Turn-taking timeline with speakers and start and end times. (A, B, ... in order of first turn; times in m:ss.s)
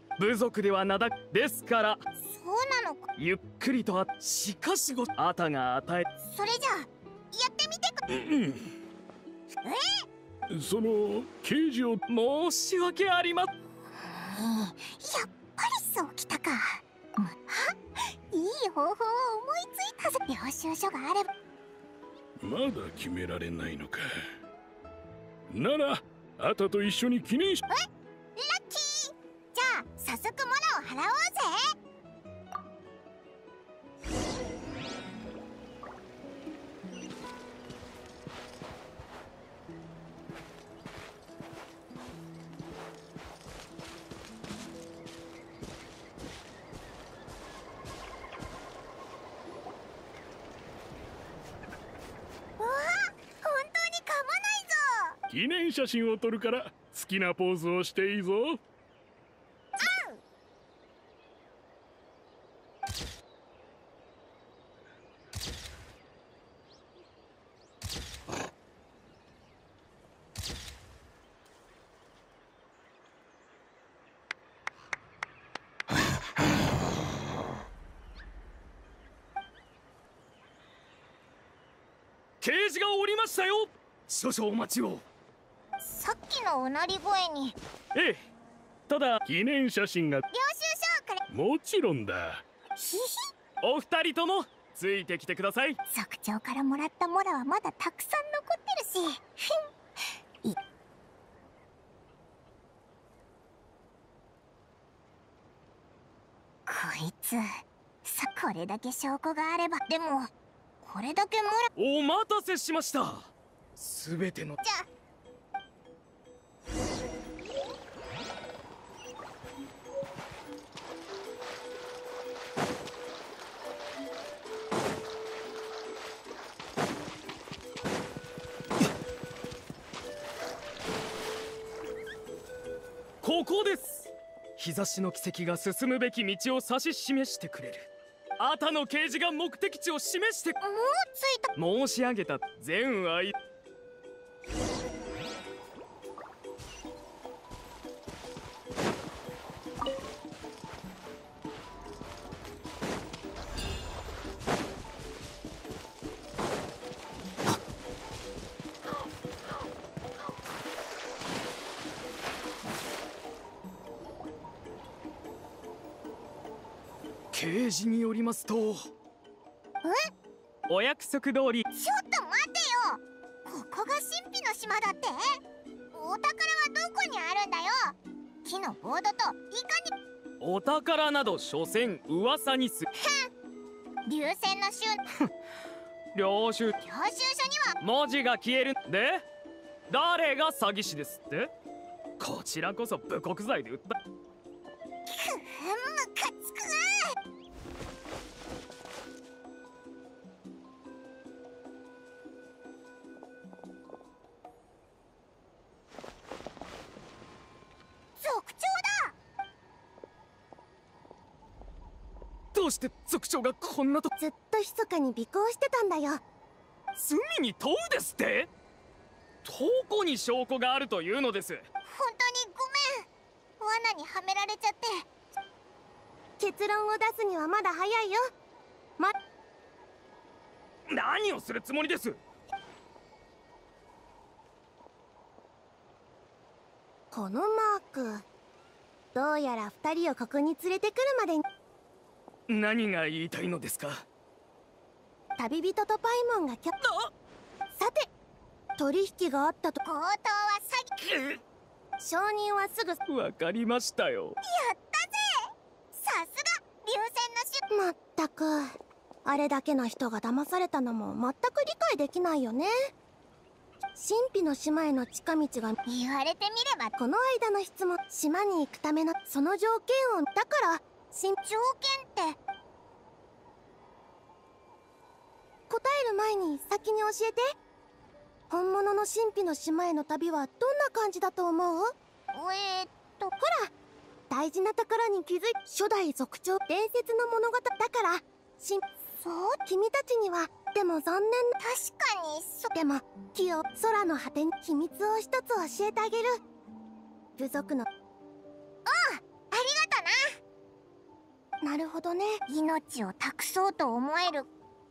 0:00.2-0:02.0 A
0:02.2-0:03.1 B
0:03.2-0:06.0 A
0:06.2-0:08.0 B
0:08.1-0:08.7 C
0:09.6-0:10.0 B
0:10.5-0:12.0 C
0:12.1-0:13.5 A
0:13.9-0:17.7 B
0:18.3-0:21.3 B
0:22.4-0:24.1 C
0:25.5-0:27.6 C
0:28.4-0:31.7 B
0:52.6-0:55.2 B
0:55.3-0:58.6 C
0:59.8-1:00.2 B
1:22.4-1:25.0 A
1:25.8-1:27.6 B
1:27.9-1:28.2 A
1:28.9-1:29.2 A
1:29.2-1:30.2 C
1:30.3-1:31.2 B
1:31.3-1:32.4 C
1:32.8-1:33.3 B
1:33.6-1:35.8 A
1:35.9-1:39.7 B
1:46.6-1:50.3 B
1:50.8-1:51.7 B
1:51.8-1:54.6 A
1:54.6-1:54.9 B
2:13.2-2:20.6 A
2:20.6-2:21.5 B
2:21.5-2:23.3 A
2:47.3-2:48.9 A
2:49.8-2:50.1 B
2:50.7-2:51.6 A
2:51.7-2:55.4 B
2:55.9-2:59.9 B
3:00.4-3:02.8 A
3:03.0-3:03.3 B
3:04.0-3:05.0 B
3:06.1-3:06.7 A
3:06.8-3:07.8 B
3:07.8-3:09.2 A
3:09.9-3:11.5 A
3:12.2-3:14.0 A
3:15.0-3:17.1 B
3:28.2-3:29.1 B
3:32.5-3:34.1 A
3:34.2-3:36.2 D
3:36.9-3:38.5 A
3:39.4-3:41.6 A
3:41.8-3:43.0 B
3:43.6-3:45.0 B
3:46.4-3:48.2 D
3:50.9-3:52.2 A
3:57.1-3:58.2 D
3:59.1-4:01.4 D
4:02.5-4:04.0 A
4:05.4-4:06.8 D
4:07.7-4:08.1 D
4:08.8-4:09.8 D
4:09.8-4:10.9 B
4:12.0-4:13.0 D
4:13.1-4:14.4 A
4:14.4-4:17.6 B
4:17.7-4:18.7 D
4:19.2-4:22.9 D
4:24.0-4:25.8 D
4:25.8-4:26.9 B
4:27.0-4:31.4 D
4:31.4-4:32.4 B
4:35.7-4:37.5 D
4:38.5-4:41.9 D
4:42.3-4:43.3 B
4:43.4-4:43.7 D
4:44.3-4:48.8 D
4:49.2-4:49.6 B
4:49.6-4:51.6 D
4:51.6-4:52.7 B
4:52.7-4:56.4 D
4:57.4-4:57.9 D
4:58.8-5:00.4 B
5:01.6-5:02.4 D
5:02.5-5:04.5 B